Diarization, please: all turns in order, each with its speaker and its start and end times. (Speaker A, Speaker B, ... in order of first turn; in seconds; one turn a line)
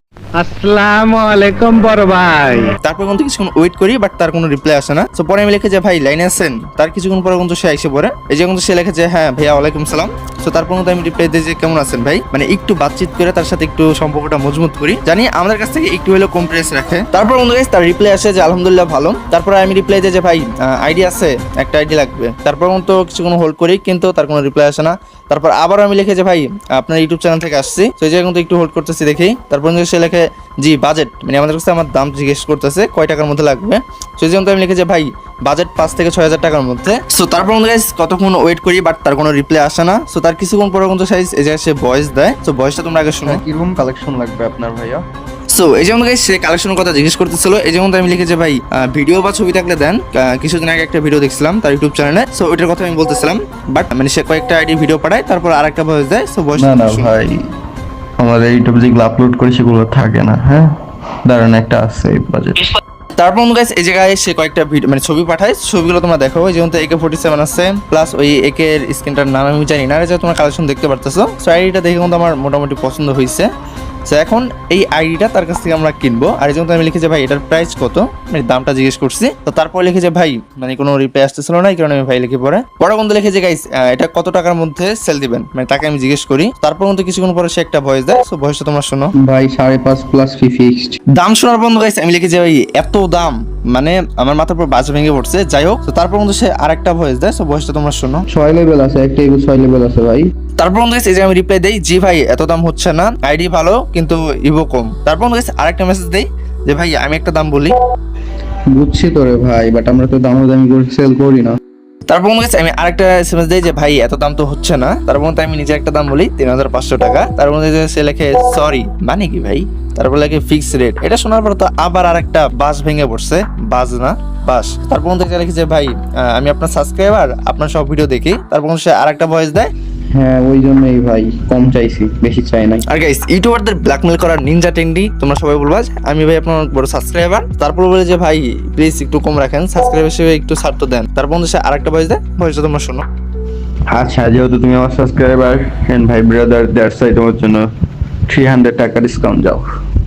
Speaker A: 0.4-2.8
Speaker B: 2.8-43.4
Speaker C: 43.3-45.0
Speaker B: 45.5-57.1
Speaker C: 56.6-57.4
Speaker C: 58.2-60.7
Speaker C: 61.2-62.7
Speaker B: 63.2-73.5
Speaker B: 74.1-89.1
Speaker C: 89.2-91.0
Speaker B: 91.1-98.2
Speaker C: 98.3-100.3
Speaker B: 100.6-107.8
Speaker C: 108.7-111.6
Speaker B: 112.1-129.7
Speaker C: 130.2-132.8
Speaker B: 132.9-143.0
Speaker C: 143.9-147.7
Speaker C: 148.3-149.7